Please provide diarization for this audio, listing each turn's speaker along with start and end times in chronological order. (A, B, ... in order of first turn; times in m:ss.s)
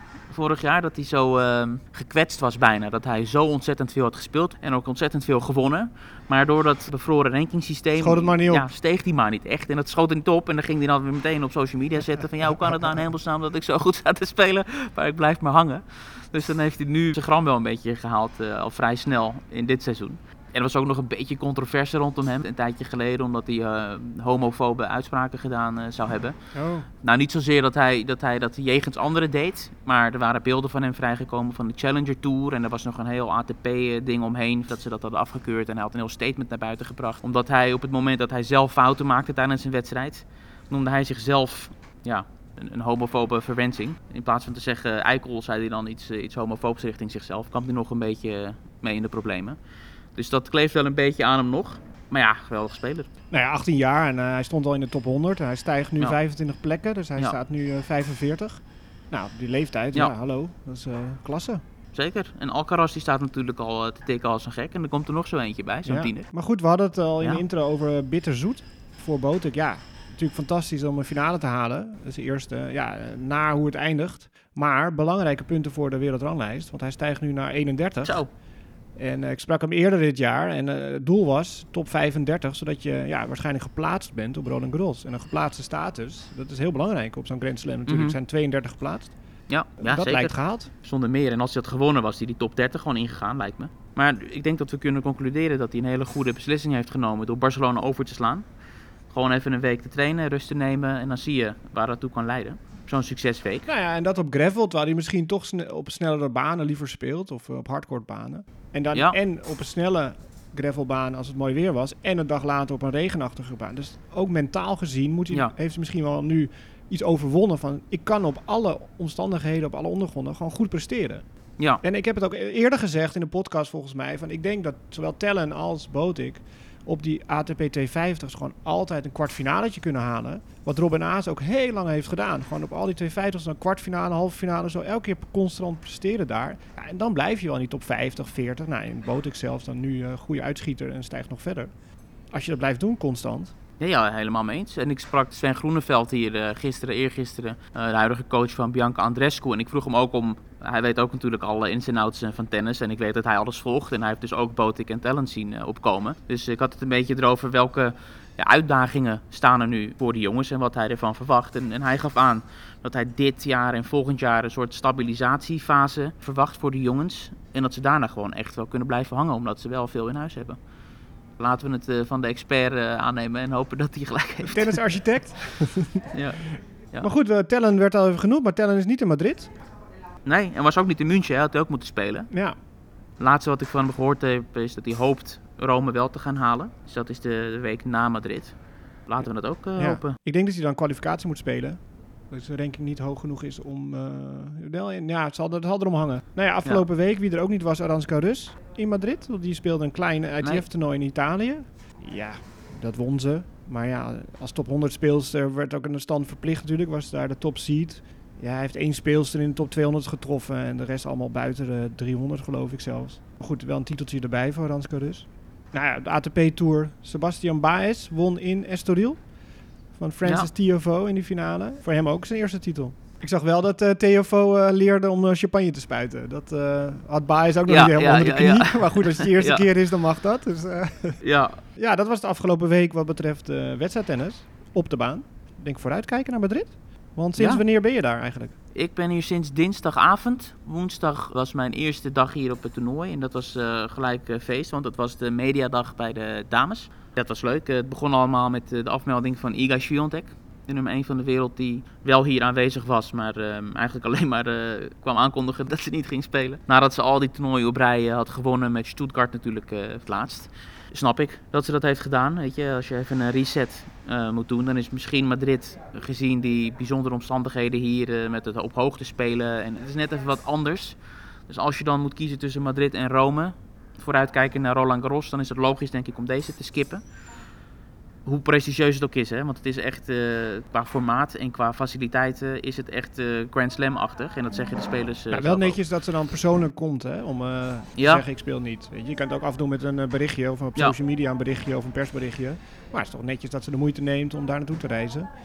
0:00.3-0:26.4 A
0:08.0-0:08.7 B
0:26.6-0:26.9 B
0:27.0-0:49.6 A
0:50.2-0:53.1 A
0:53.3-1:01.6 B
1:01.9-1:06.3 A
1:05.9-1:18.2 B
1:18.0-1:18.3 A
1:19.0-1:29.2 B
1:27.9-1:28.2 A
1:29.5-1:38.5 A
1:29.8-1:30.7 B
1:39.1-1:43.7 A
1:43.6-2:01.2 B
1:48.9-1:49.2 A
2:01.8-2:21.7 B
2:22.3-2:23.5 B
2:23.8-2:50.6 A
2:51.4-2:54.8 A
2:54.5-2:56.0 B
2:56.1-2:57.1 A
2:57.0-2:59.5 B
3:00.2-3:02.3 A
3:02.3-3:02.6 B
3:03.2-3:10.2 A
3:09.8-3:39.3 B
3:39.9-3:51.2 B
3:40.2-3:40.5 A
3:47.7-3:49.6 A
3:51.2-3:51.6 A
3:51.8-3:58.6 B
3:57.4-3:57.6 A
3:58.7-4:37.0 A
4:38.2-4:45.8 A
4:45.3-4:55.3 B
4:48.0-4:48.2 A